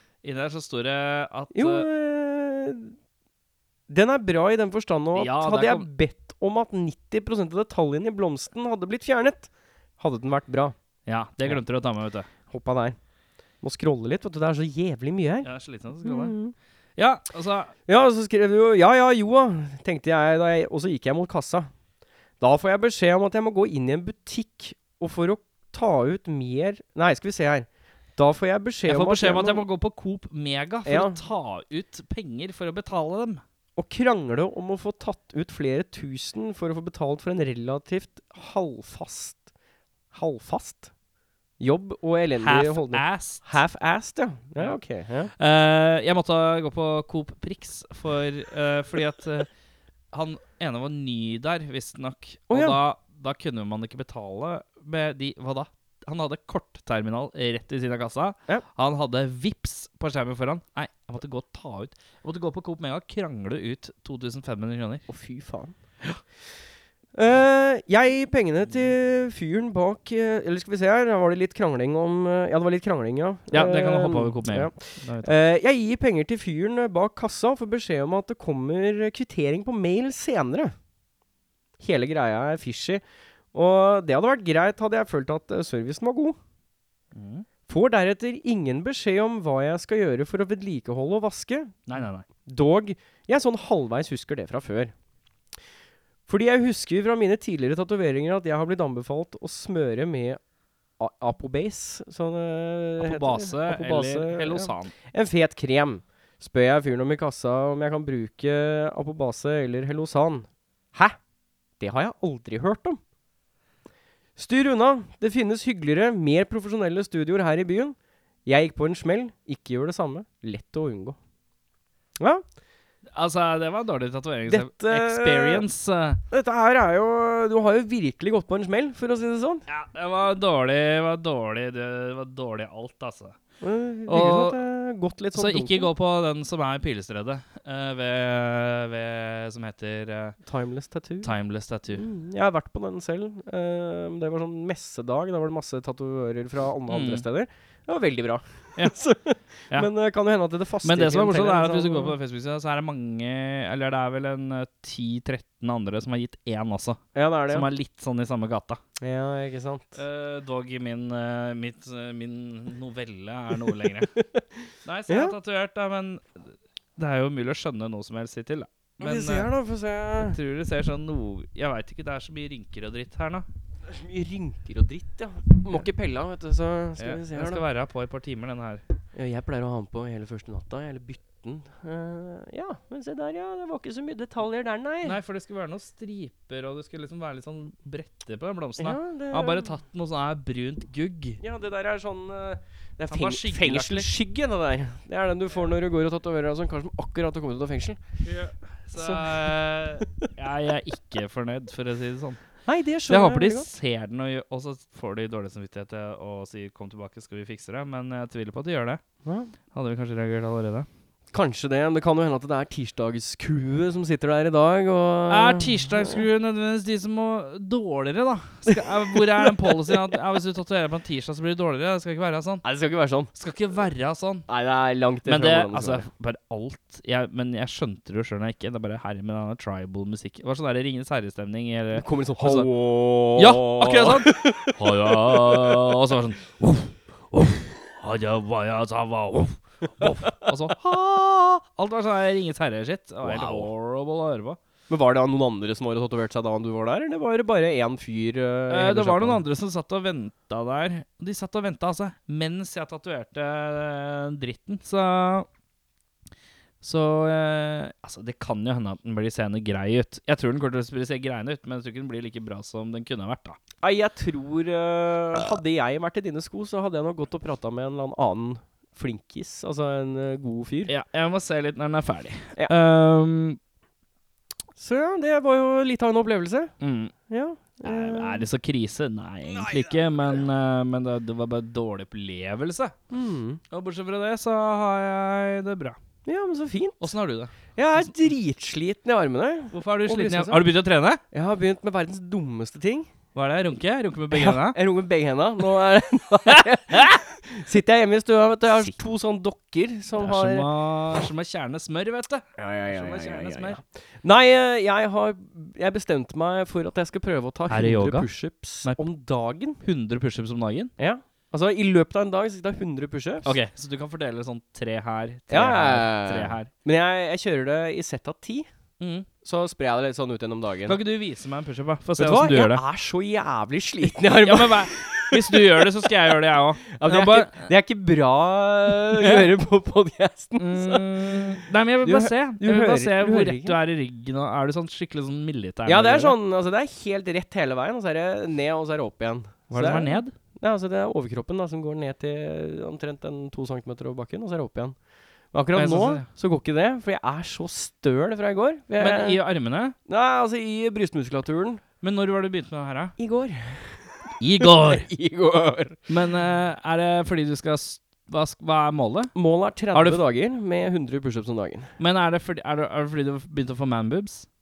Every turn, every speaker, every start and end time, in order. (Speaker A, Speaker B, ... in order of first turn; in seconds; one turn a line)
Speaker A: 0.2-1.9
Speaker B: 1.5-2.9
Speaker B: 3.9-10.8
Speaker A: 5.1-5.9
Speaker A: 11.1-12.3
Speaker B: 12.5-13.0
Speaker B: 13.6-15.5
Speaker A: 15.4-16.4
Speaker B: 16.0-16.6
Speaker A: 17.0-17.7
Speaker B: 17.9-21.7
Speaker B: 22.4-29.6
Speaker A: 28.9-33.4
Speaker B: 30.9-31.2
Speaker B: 33.8-39.5
Speaker B: 40.1-40.9
Speaker B: 41.6-45.3
Speaker A: 42.4-43.6
Speaker A: 45.4-49.5
Speaker A: 50.1-65.1
Speaker B: 52.5-52.8
Speaker B: 65.1-65.8
Speaker B: 67.2-80.8
Speaker A: 73.5-75.3
Speaker B: 81.8-83.0
Speaker B: 83.5-86.4
Speaker A: 87.1-87.5
Speaker B: 87.7-91.8
Speaker A: 91.9-92.2
Speaker B: 92.5-94.9
Speaker B: 96.3-100.4
Speaker B: 101.0-111.2
Speaker A: 103.0-104.9
Speaker B: 111.8-113.0
Speaker B: 114.4-121.2
Speaker B: 122.2-122.4
Speaker A: 123.1-126.2
Speaker B: 124.5-125.6
Speaker B: 126.3-129.6
Speaker A: 129.7-133.4
Speaker B: 133.6-135.9
Speaker A: 134.1-134.6
Speaker A: 135.3-140.4
Speaker B: 140.4-141.3
Speaker A: 141.2-142.1
Speaker B: 141.9-152.2
Speaker A: 146.9-147.2
Speaker A: 150.8-158.8
Speaker B: 157.1-157.7
Speaker B: 159.0-160.0
Speaker A: 159.9-164.1
Speaker A: 164.8-166.4
Speaker B: 165.1-165.4
Speaker A: 167.0-169.5
Speaker B: 169.0-170.4
Speaker A: 170.2-173.4
Speaker B: 173.9-177.6
Speaker A: 177.0-178.8
Speaker B: 179.1-185.2
Speaker A: 185.0-191.4
Speaker B: 188.8-189.7
Speaker B: 191.4-198.0
Speaker A: 193.1-194.1
Speaker A: 198.2-202.4
Speaker B: 198.9-199.6
Speaker B: 202.7-203.7
Speaker A: 203.1-209.0
Speaker B: 209.2-209.5
Speaker A: 209.7-210.9
Speaker B: 211.3-216.2
Speaker A: 215.3-222.6
Speaker B: 219.4-219.7
Speaker B: 222.6-223.3
Speaker A: 223.3-224.5
Speaker B: 224.5-226.1
Speaker A: 225.2-232.7
Speaker B: 231.9-235.8
Speaker A: 233.3-244.6
Speaker B: 243.2-243.7
Speaker B: 244.9-249.4
Speaker A: 248.7-255.5
Speaker A: 256.8-263.6
Speaker B: 263.8-270.9
Speaker A: 270.9-273.6
Speaker B: 274.8-276.7
Speaker A: 276.8-277.1
Speaker B: 277.3-278.4
Speaker A: 277.8-282.9
Speaker B: 283.1-283.6
Speaker A: 283.7-286.0
Speaker B: 286.2-287.1
Speaker A: 287.0-287.5
Speaker B: 287.8-290.7
Speaker A: 289.7-291.2
Speaker B: 291.3-293.1
Speaker A: 293.4-294.8
Speaker B: 294.3-300.7
Speaker A: 300.2-303.8
Speaker B: 302.6-309.8
Speaker A: 307.7-308.3
Speaker A: 309.8-310.9
Speaker B: 311.0-313.5
Speaker A: 313.4-316.7
Speaker B: 315.5-318.7
Speaker A: 319.0-319.2
Speaker B: 319.4-321.0
Speaker A: 320.9-322.8
Speaker B: 322.2-326.1
Speaker A: 324.4-327.7
Speaker B: 326.9-331.5
Speaker A: 329.2-329.5
Speaker A: 330.6-336.4
Speaker B: 332.0-333.8
Speaker B: 335.9-345.0
Speaker A: 339.7-340.3
Speaker B: 345.5-349.4
Speaker A: 345.8-346.3
Speaker A: 349.0-350.0
Speaker B: 350.1-351.8
Speaker A: 352.0-353.1
Speaker B: 353.2-356.0
Speaker A: 354.4-355.1
Speaker A: 356.1-359.4
Speaker B: 359.3-361.9
Speaker A: 359.9-360.2
Speaker A: 362.0-364.5